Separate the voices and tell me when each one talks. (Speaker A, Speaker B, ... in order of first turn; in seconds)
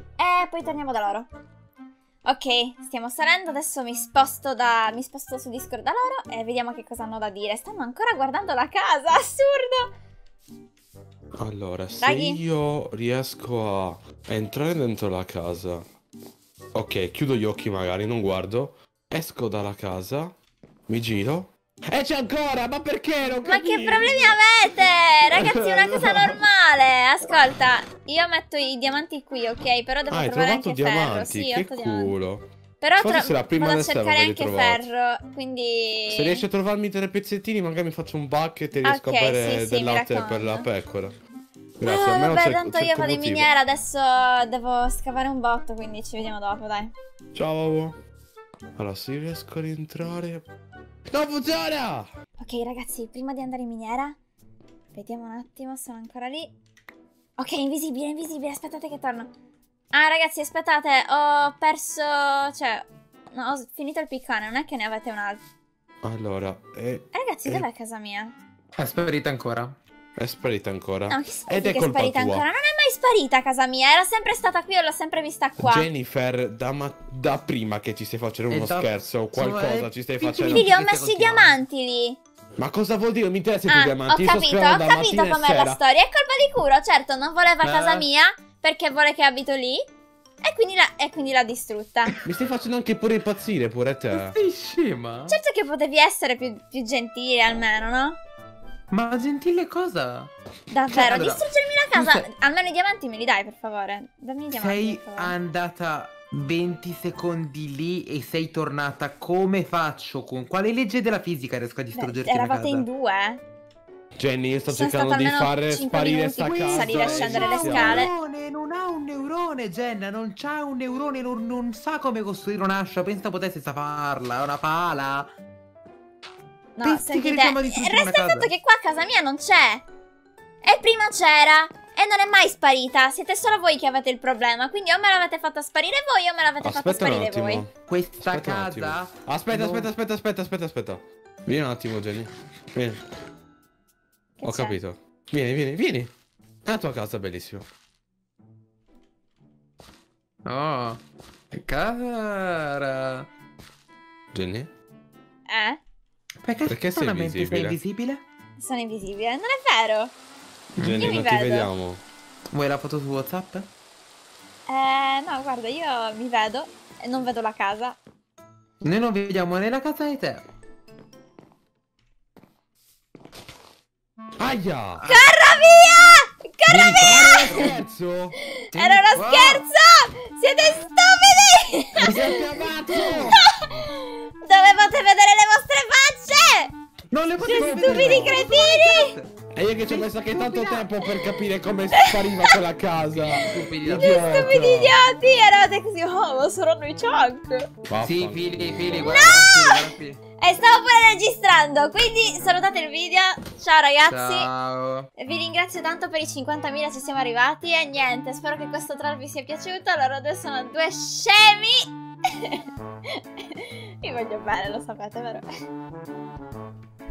Speaker A: 0.2-1.3, 2.3-9.9, 12.0-12.4, 23.4-32.1, 32.8-36.5, 38.8-40.7, 41.8-46.9, 52.4-54.2, 54.9-56.5, 57.4-59.3, 59.9-65.4, 67.1-68.3, 71.1-75.9, 80.5-82.2, 83.7-89.9, 90.4-92.2, 95.3-98.2, 100.7-105.3, 112.0-113.4, 114.7-118.1, 126.8-129.8, 130.6-137.7, 144.4-144.8, 155.5-155.8, 158.6-160.1, 160.9-161.7, 164.7-168.0, 175.1-177.7, 178.6-182.5, 183.2-186.7, 187.4-189.1, 191.9-192.6, 193.3-197.7, 198.9-204.5, 205.2-215.5
Speaker B: 11.4-15.8, 16.7-20.3, 20.9-24.4, 25.3-26.4, 30.1-32.5, 33.0-34.9, 36.1-41.1, 41.8-43.5, 47.4-48.0, 48.8-50.5, 51.1-52.1, 66.0-67.7, 70.2-72.5, 75.6-80.8, 82.6-85.8, 92.2-94.4, 114.2-118.1, 136.6-143.0, 144.4-146.1, 146.7-147.7, 154.3-154.7, 156.7-157.8, 160.8-162.0, 174.4-175.1, 176.9-178.4, 182.0-183.4, 187.4-188.3, 189.5-195.0, 197.9-198.4
Speaker C: 68.8-69.8, 78.5-81.6, 87.6-88.1, 94.1-95.4, 98.9-100.3, 100.9-102.3, 104.5-112.9, 116.5-125.3, 126.8-128.5, 137.9-139.9, 150.4-151.0, 151.5-153.3, 156.4-158.2, 160.8-161.2, 162.5-163.7, 168.8-170.4, 175.0-175.3, 176.7-177.8, 178.7-179.7, 182.1-183.4, 187.1-189.3, 189.9-191.0, 193.1-194.6, 198.0-200.2, 204.1-205.1